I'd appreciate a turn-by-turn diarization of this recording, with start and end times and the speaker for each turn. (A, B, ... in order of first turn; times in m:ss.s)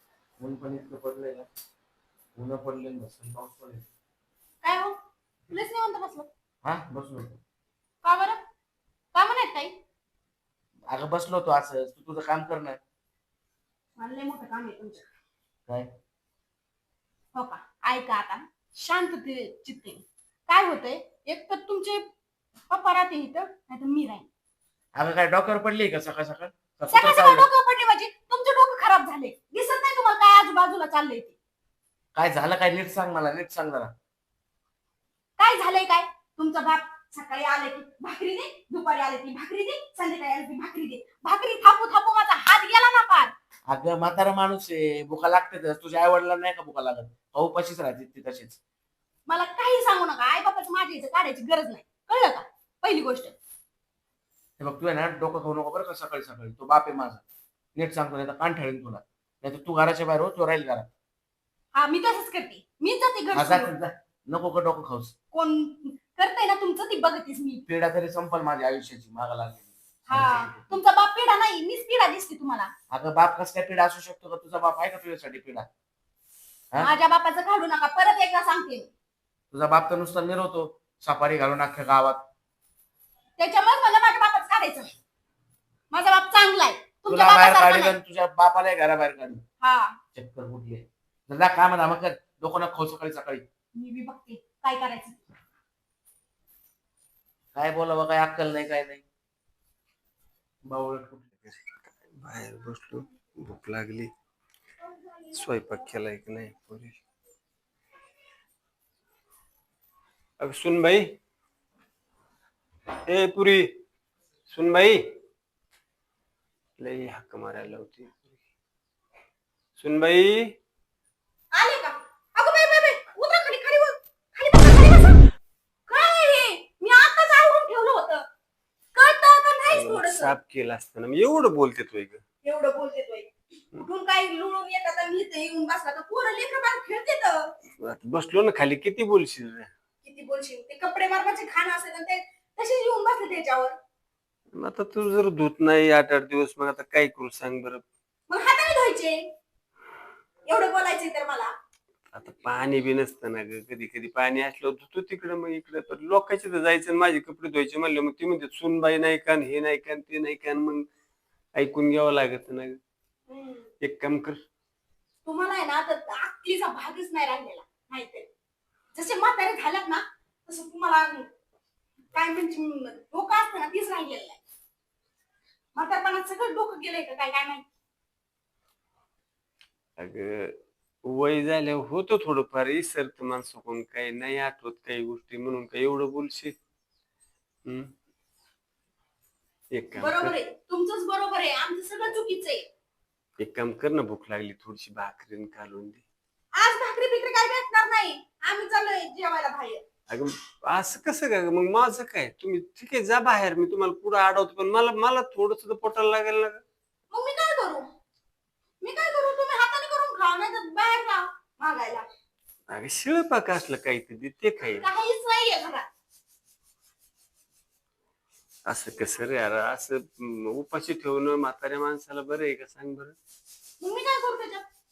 0:00.4-0:01.5 A
0:02.4-0:03.8 A
0:04.6-0:05.0 B
0:05.5-0:06.3 B
0:06.6-0:07.4 A
0:08.0-0:08.4 B
0:09.2-0:09.8 B
0:10.9-0:12.8 A
0:14.0-0:15.0 B
0:17.3-0:22.1 B
0:22.7-0:24.3 B
0:25.0-0:27.5 A
0:26.9-0:31.3 B
0:32.2-0:33.9 A
0:35.4-0:43.3 B
0:43.7-0:48.6 A
0:49.3-0:53.4 B
0:54.6-0:57.2 A
0:57.8-1:00.9 A
1:01.7-1:03.7 B
1:03.3-1:05.1 A
1:05.3-1:07.7 B
1:07.7-1:10.4 A
1:10.1-1:12.7 B
1:12.9-1:15.7 A
1:16.8-1:18.9 B
1:19.5-1:22.2 A
1:23.4-1:24.9 B
1:25.9-1:28.0 B
1:27.1-1:29.4 A
1:29.6-1:30.0 B
1:30.1-1:33.4 A
1:33.8-1:35.3 B
1:37.5-1:39.0 A
1:40.7-1:41.2 A
1:41.4-1:44.1 C
1:45.3-1:47.0 C
1:50.4-1:51.2 C
1:53.1-1:53.7 C
1:54.5-1:55.0 C
1:56.8-1:58.3 C
1:59.8-2:00.5 C
2:01.5-2:05.2 B
2:05.9-2:08.2 B
2:08.9-2:10.4 B
2:09.7-2:12.2 C
2:12.4-2:17.5 B
2:17.8-2:19.7 C
2:20.0-2:23.8 B
2:24.5-2:27.8 C
2:28.3-2:29.3 B
2:30.5-2:31.5 B
2:32.1-2:40.9 C
2:41.5-2:42.8 C
2:43.3-2:43.7 B
2:43.8-2:44.4 C
2:45.2-2:48.3 B
2:48.9-2:51.3 B
2:52.1-2:54.4 B
2:55.8-2:57.6 B
3:00.0-3:06.6 C
3:07.6-3:07.9 C
3:09.7-3:10.4 C
3:09.9-3:12.7 B
3:13.4-3:16.0 C
3:16.6-3:19.8 B
3:20.1-3:26.6 C
3:27.1-3:27.9 B
3:28.8-3:32.1 B
3:32.7-3:34.8 C
3:34.7-3:35.8 B
3:38.7-3:43.2 C
3:43.8-3:44.6 B